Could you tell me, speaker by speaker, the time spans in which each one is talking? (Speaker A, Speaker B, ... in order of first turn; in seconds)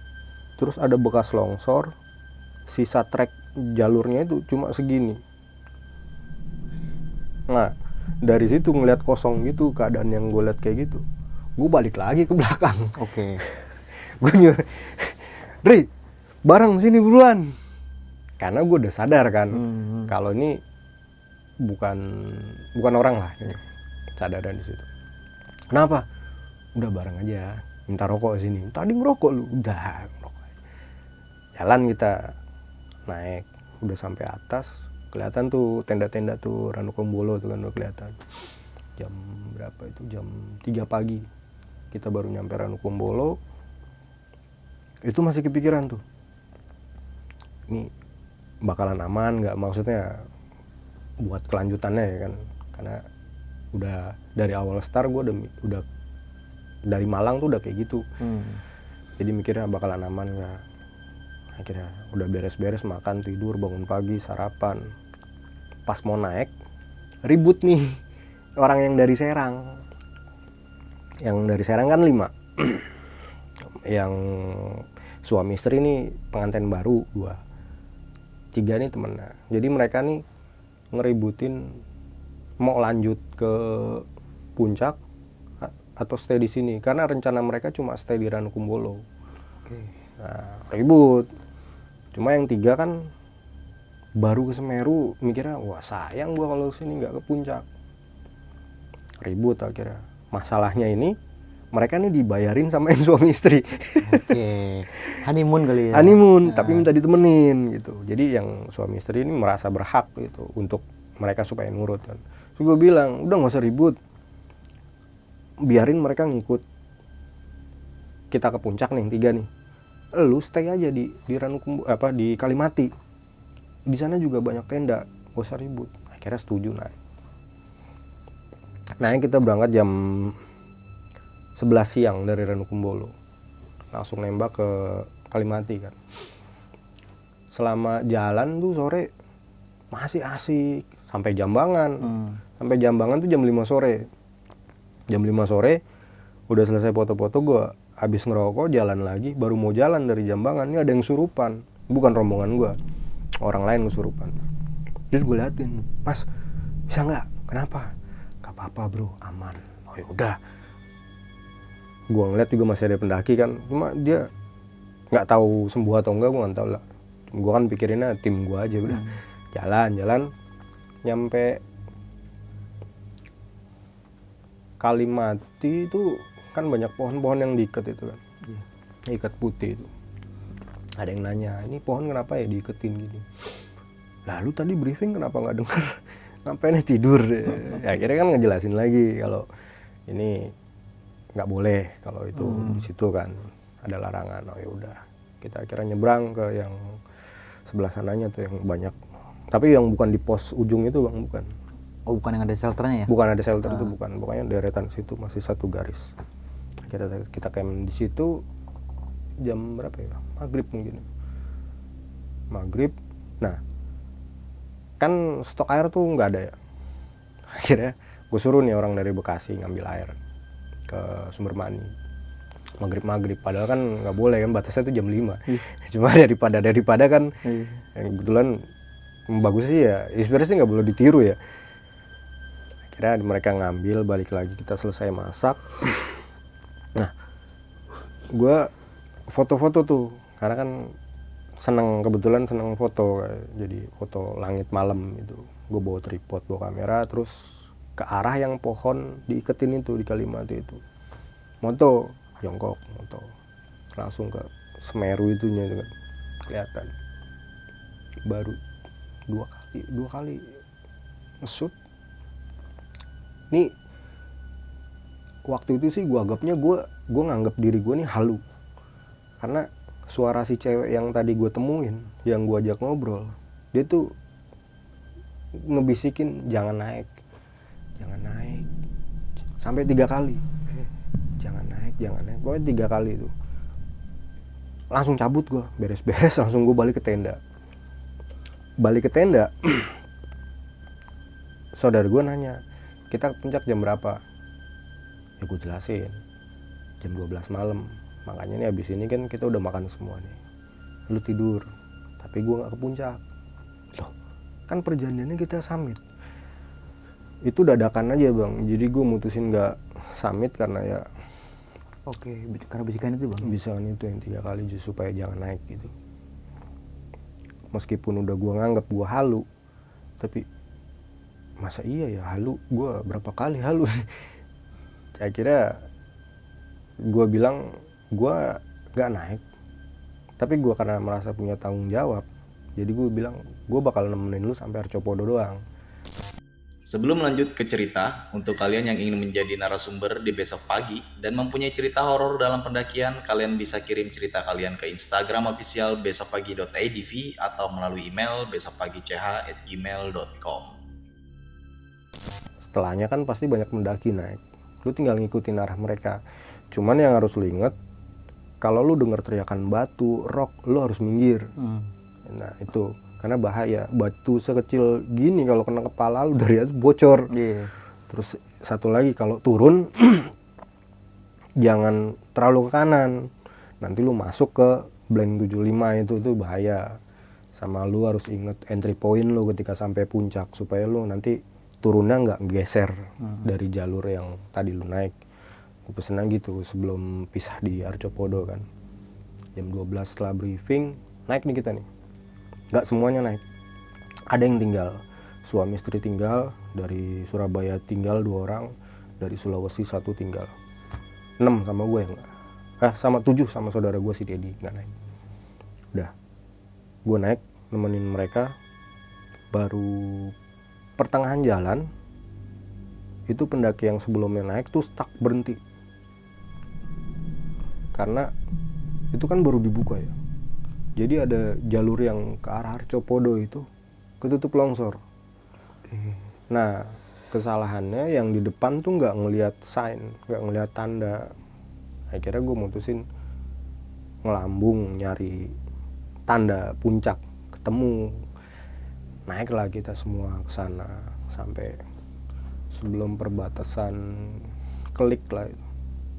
Speaker A: 0.6-1.9, 2.7-5.2, 8.2-11.0, 11.6-12.9, 13.6-15.9, 16.4-17.6, 18.4-20.6, 21.6-23.6, 24.2-24.9, 25.7-26.1, 26.8-30.5, 31.6-32.3, 33.1-38.2, 39.0-41.3, 41.9-43.4, 45.1-46.0, 48.6-50.2, 51.2-53.0, 53.7-55.8, 56.9-58.0, 59.2-60.6, 61.6-64.9, 65.9-66.5, 67.2-68.0, 68.6-69.8, 71.2-72.9, 73.9-77.4, 78.5-80.2, 80.9-81.8, 82.6-84.0, 84.6-85.0, 85.6-89.0, 90.2-91.3, 92.1-93.1, 94.2-97.6, 99.2-101.2, 101.7-104.4, 105.9-114.0, 115.6-116.6, 118.3-119.5, 120.2-122.9, 123.9-126.9, 129.0-130.4, 131.6-133.1, 133.9-136.0, 137.5-139.1, 139.9-144.1, 145.1-145.8, 146.5-152.8, 153.4-154.4, 155.1-156.3, 156.9-157.9, 158.4-160.4, 162.1-164.3, 165.1-170.3, 171.0-171.6, 174.8-178.2, 179.1-179.9, 181.0-183.3, 184.3-189.5, 190.1-190.5, 191.4-197.0, 197.7-198.9, 199.5-201.5, 203.1-206.1, 206.9-208.4, 209.4-211.1, 212.5-213.6, 215.0-216.6, 217.5-220.2, 220.9-221.9, 222.8-227.4, 227.9-228.7, 229.3-231.4, 232.9-236.0, 238.3-238.7, 239.3-240.9, 241.6-247.3, 248.0-250.8, 251.6-253.3, 254.0-255.9, 256.5-256.9, 258.3-258.6, 259.3-260.5, 261.4-261.7, 265.5-268.4, 269.4-274.1, 275.6-277.1, 278.0-278.7, 279.6-280.5, 281.4-283.3, 284.9-287.4, 288.8-289.9, 291.8-294.2, 295.4-296.2, 297.0-300.4, 301.1-301.7, 302.2-303.2, 304.7-306.0, 307.4-311.1, 313.4-315.9, 317.7-319.4, 320.2-320.5, 321.6-324.1, 325.2-325.8, 327.1-329.4, 330.4-332.2, 332.8-335.6, 352.7-357.8, 358.6-361.5, 362.3-367.3, 368.1-370.3, 371.6-373.3, 373.8-377.0, 377.6-385.1, 385.9-388.6, 389.6-391.9, 392.7-393.4, 394.3-400.5, 401.4-402.3, 402.8-404.9, 407.1-408.6, 409.5-410.3, 411.0-411.9, 413.3-415.6, 417.9-418.3, 419.1-420.1, 421.0-423.7, 424.2-425.0, 426.5-431.3, 432.1-433.0, 434.2-435.5, 436.3-438.2, 439.3-441.8, 442.7-445.6
Speaker B: 13.0-13.4, 19.6-20.1, 58.2-58.6, 89.7-89.9, 104.0-106.9, 142.0-142.4, 168.9-169.2, 192.4-192.8, 202.1-203.1, 203.7-203.9, 227.4-227.8, 312.1-313.5, 361.6-361.9, 367.3-367.7, 425.9-426.2
Speaker C: 336.9-350.8